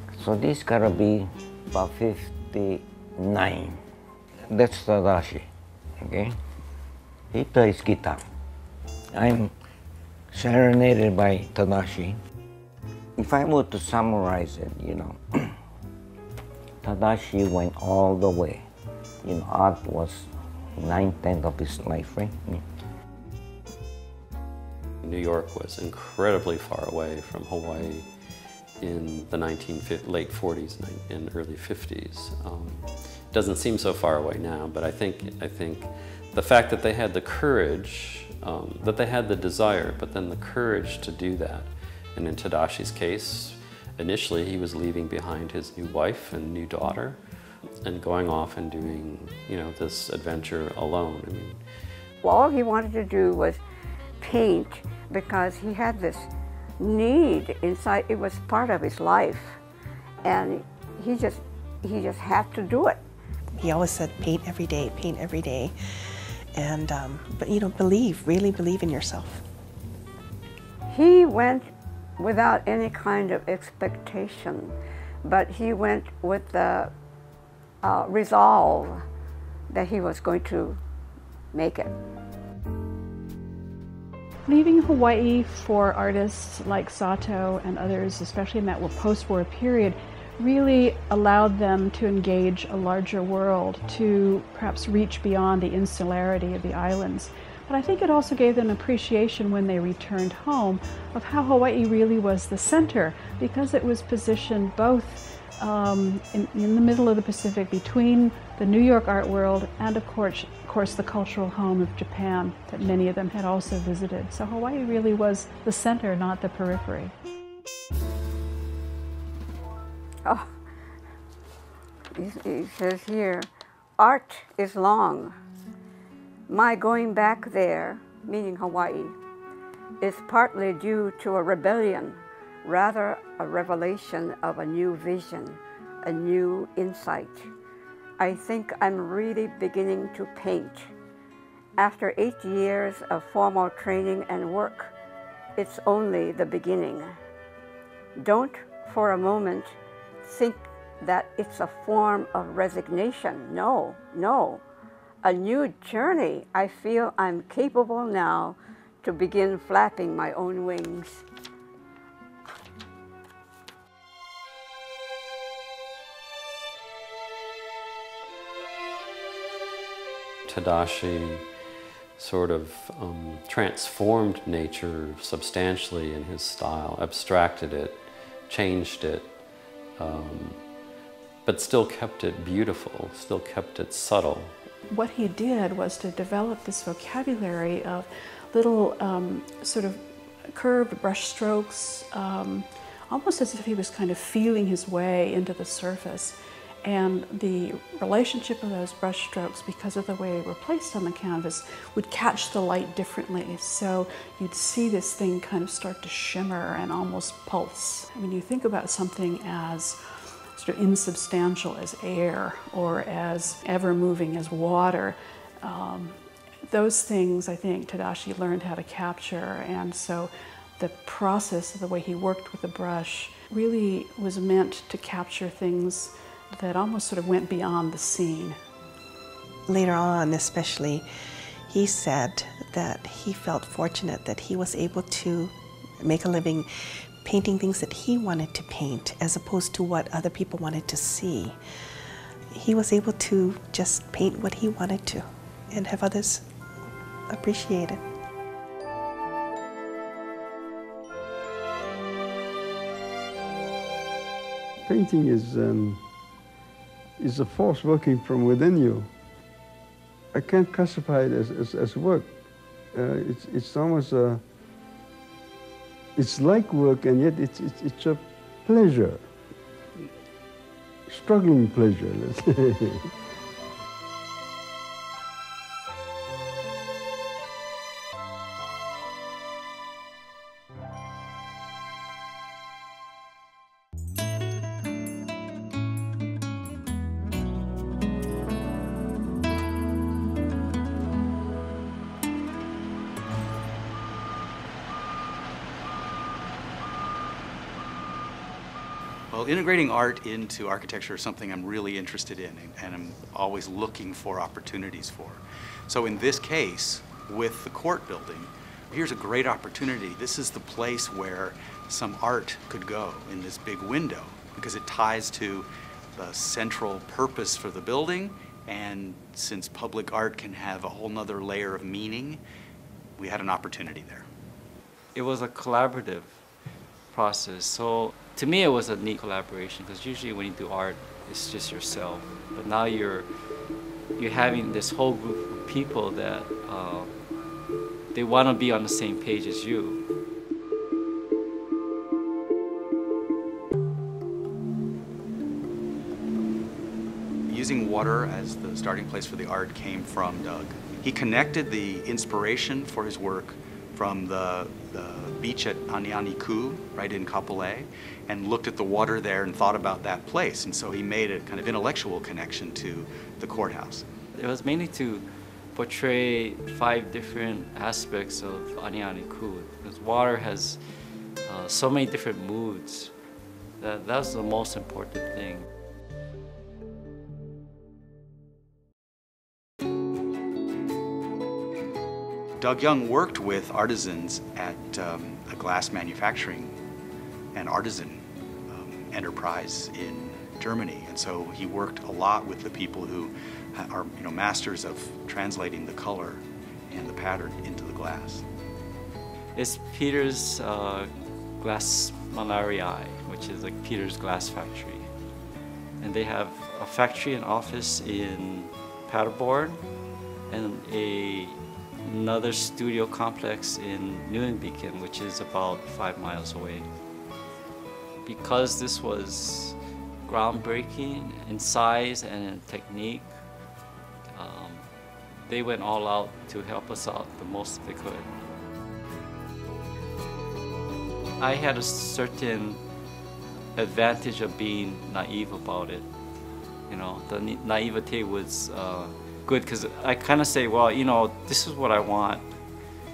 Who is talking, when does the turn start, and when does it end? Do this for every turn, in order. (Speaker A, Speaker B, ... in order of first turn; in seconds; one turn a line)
Speaker A: 0.2-3.8
Speaker A: 4.5-5.5
Speaker A: 6.0-6.4
Speaker A: 7.3-8.2
Speaker A: 9.1-9.5
Speaker A: 10.3-12.2
Speaker A: 13.2-15.2
Speaker A: 16.8-18.6
Speaker A: 19.2-22.6
Speaker B: 25.0-28.1
Speaker B: 28.8-47.2
Speaker B: 47.8-51.6
Speaker C: 52.2-53.6
Speaker C: 54.2-59.6
Speaker C: 60.2-63.0
Speaker D: 63.6-69.4
Speaker C: 70.9-76.9
Speaker C: 77.8-79.0
Speaker C: 79.7-80.8
Speaker C: 81.5-81.9
Speaker E: 84.5-117.1
Speaker C: 122.1-125.3
Speaker C: 126.5-129.1
Speaker C: 130.0-137.5
Speaker C: 138.2-140.9
Speaker C: 141.8-144.9
Speaker C: 145.6-147.2
Speaker C: 148.2-154.6
Speaker C: 155.2-161.2
Speaker B: 170.4-171.5
Speaker B: 172.2-179.4
Speaker B: 179.9-180.7
Speaker B: 181.4-184.6
Speaker E: 184.9-228.6
Speaker D: 229.7-231.1
Speaker D: 231.7-236.7
Speaker D: 237.2-241.6
Speaker D: 242.5-246.4
Speaker D: 247.3-248.0
Speaker F: 254.8-256.0
Speaker F: 257.2-259.1
Speaker F: 260.3-262.4
Speaker F: 262.9-264.4
Speaker F: 266.1-269.3
Speaker F: 271.1-273.1
Speaker G: 299.3-322.4
Speaker G: 323.2-324.3
Speaker H: 325.1-326.4
Speaker H: 327.1-333.3
Speaker H: 334.2-337.1
Speaker H: 338.1-340.0
Speaker G: 347.5-364.1
Speaker H: 364.3-370.8
Speaker H: 371.4-373.1
Speaker H: 373.8-375.7
Speaker G: 382.6-386.8
Speaker G: 387.5-398.4
Speaker H: 399.5-405.1
Speaker H: 406.0-409.8
Speaker H: 410.5-416.9
Speaker H: 418.2-423.3
Speaker H: 424.3-424.9
Speaker H: 425.5-428.3
Speaker H: 431.4-432.8
Speaker H: 433.8-436.1
Speaker H: 436.9-442.5